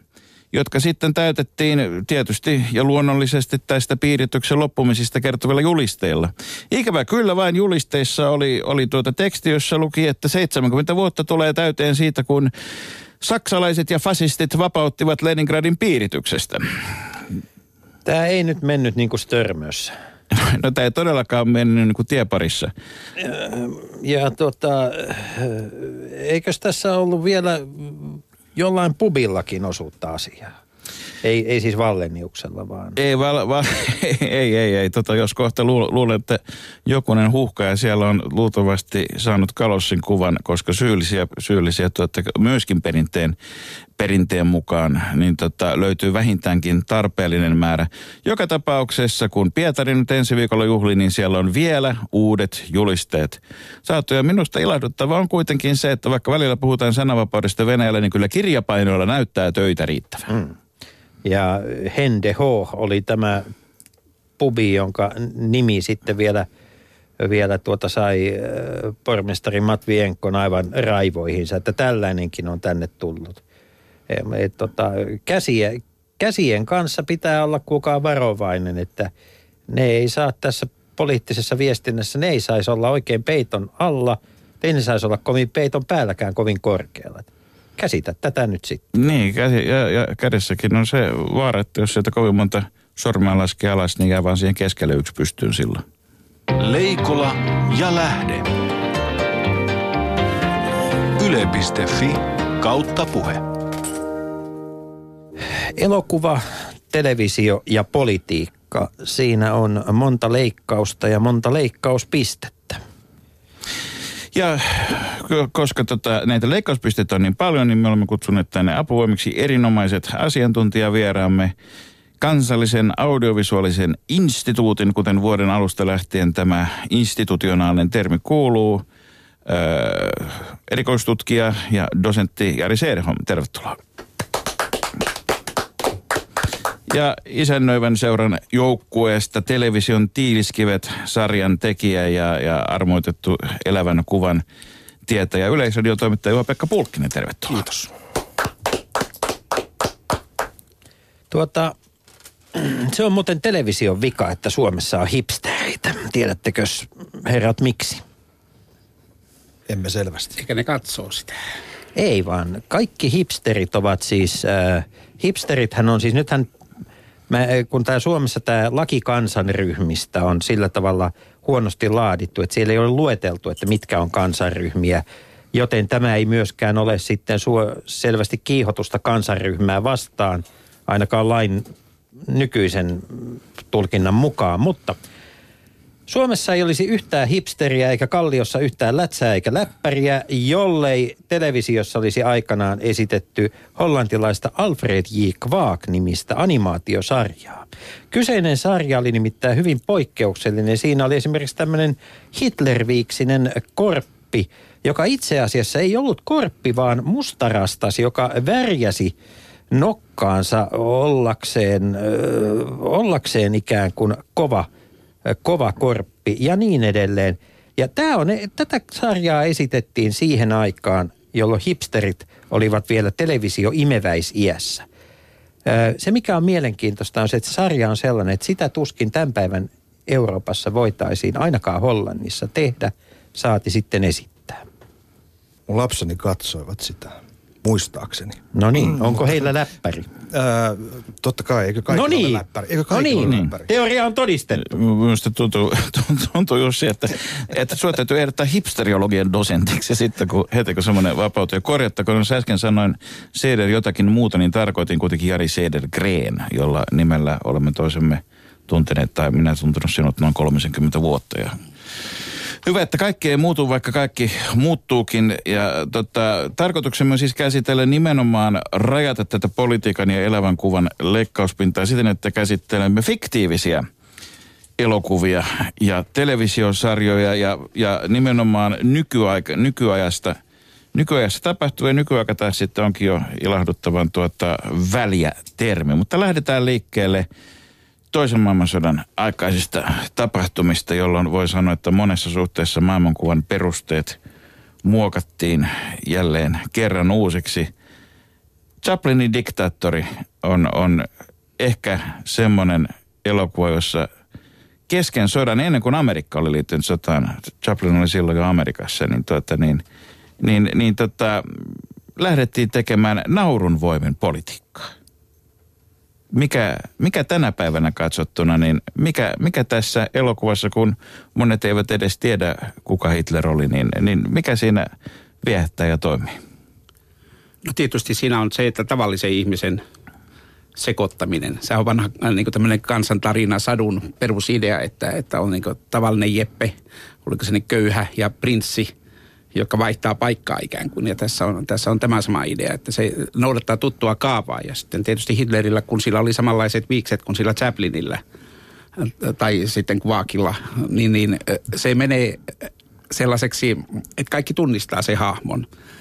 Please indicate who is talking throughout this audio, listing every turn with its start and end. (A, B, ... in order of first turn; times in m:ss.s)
0:00.5-0:12.5 A
0:13.2-0:16.7 A
0:18.0-0:19.9 B
0:20.3-0:22.7 A
0:23.2-0:30.5 B
0:31.2-0:33.0 B
0:33.0-0:43.4 A
0:44.0-1:00.3 A
1:00.3-1:00.5 B
1:01.2-1:03.5 B
1:04.4-1:06.5 B
1:07.2-1:13.4 B
1:14.1-1:19.1 B
1:19.7-1:28.8 B
1:28.9-1:35.8 A
1:36.6-1:38.5 C
1:41.2-1:43.4 C
1:45.8-1:52.8 B
1:54.3-2:01.5 A
2:02.2-2:08.8 A
2:09.4-2:13.8 A
2:16.9-2:24.4 A
2:25.1-2:27.6 A
2:31.3-2:31.7 B
2:32.5-2:38.0 B
2:39.7-2:40.4 D
2:40.4-2:41.4 E
2:42.0-2:46.5 B
2:47.3-3:01.7 B
3:02.3-3:05.0 B
3:06.1-3:29.1 B
3:29.7-3:34.7 B
3:35.2-3:44.8 B
3:45.6-3:54.6 B
3:55.7-3:59.0 D
3:58.5-4:00.1 B
4:00.3-4:03.7 D
4:01.9-4:04.7 B
4:04.6-4:21.6 A
4:22.6-4:33.9 A
4:34.8-4:40.4 A
4:40.9-4:47.3 A
4:48.1-4:54.2 A
4:54.8-4:57.7 A
4:58.8-5:01.1 A
5:01.6-5:04.1 A
5:04.9-5:09.8 A
5:10.4-5:14.9 A
5:16.3-5:24.9 A
5:25.4-5:26.4 A
5:27.6-5:29.8 E
5:30.8-5:36.7 E
5:37.2-5:38.9 E
5:39.5-5:48.2 E
5:49.0-5:55.6 E